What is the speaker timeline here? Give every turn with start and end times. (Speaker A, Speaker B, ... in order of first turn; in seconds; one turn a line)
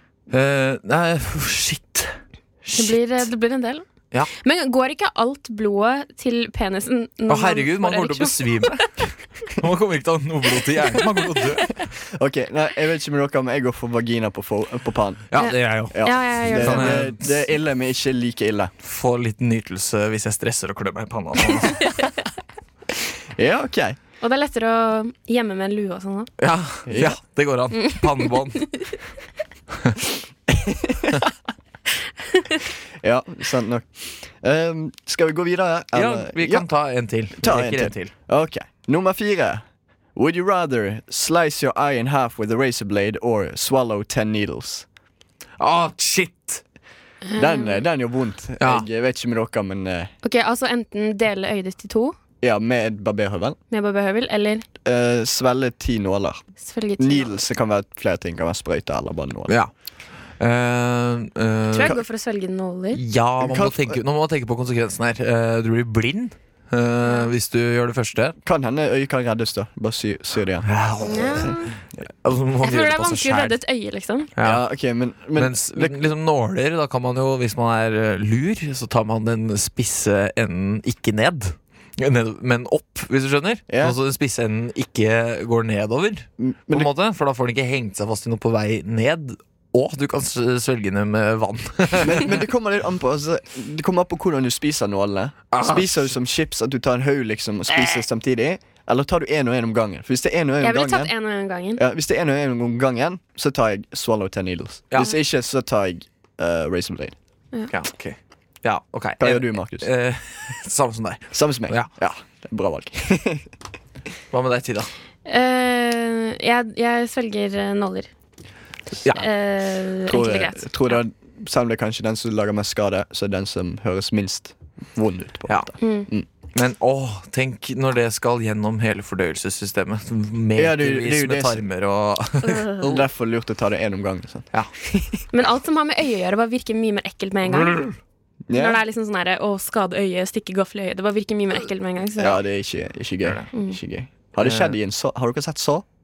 Speaker A: 0.3-3.3
Speaker B: 2.8-3.9
Speaker B: 4.4-8.9
Speaker A: 7.3-11.9
Speaker C: 12.0-15.3
Speaker A: 15.3-17.4
Speaker B: 15.4-17.0
Speaker C: 15.9-18.7
Speaker A: 18.8-22.1
Speaker C: 23.3-24.0
Speaker B: 24.2-26.3
Speaker A: 26.4-28.8
Speaker C: 26.9-27.2
Speaker B: 27.8-28.9
Speaker C: 30.5-31.2
Speaker C: 33.0-36.7
Speaker A: 35.9-38.1
Speaker C: 37.4-39.6
Speaker C: 40.1-44.9
Speaker A: 45.6-46.6
Speaker B: 47.2-47.8
Speaker C: 47.4-50.1
Speaker A: 48.6-48.9
Speaker B: 50.2-52.2
Speaker C: 52.4-53.6
Speaker B: 53.7-54.7
Speaker C: 54.8-56.4
Speaker B: 56.6-57.4
Speaker C: 57.0-59.5
Speaker A: 60.4-62.0
Speaker B: 61.7-63.0
Speaker A: 63.0-68.4
Speaker C: 63.4-64.0
Speaker C: 68.4-70.7
Speaker A: 70.7-73.6
Speaker B: 71.0-71.7
Speaker B: 72.6-74.3
Speaker A: 74.4-74.6
Speaker C: 74.4-76.0
Speaker A: 75.3-92.3
Speaker C: 83.7-84.0
Speaker C: 86.4-86.9
Speaker C: 92.0-101.1
Speaker A: 95.5-96.1
Speaker A: 97.7-98.0
Speaker B: 100.6-101.8
Speaker C: 101.8-107.2
Speaker A: 107.7-111.9
Speaker C: 109.2-109.9
Speaker C: 111.3-113.5
Speaker A: 114.3-114.9
Speaker B: 115.3-118.1
Speaker B: 119.1-121.0
Speaker C: 120.1-126.3
Speaker B: 125.8-126.1
Speaker A: 126.5-133.0
Speaker C: 130.6-131.6
Speaker B: 132.4-132.8
Speaker C: 132.8-135.1
Speaker B: 135.3-137.8
Speaker A: 137.5-137.9
Speaker C: 138.5-138.8
Speaker B: 138.5-142.4
Speaker C: 142.2-145.8
Speaker A: 143.2-143.5
Speaker B: 143.5-143.8
Speaker A: 144.4-144.8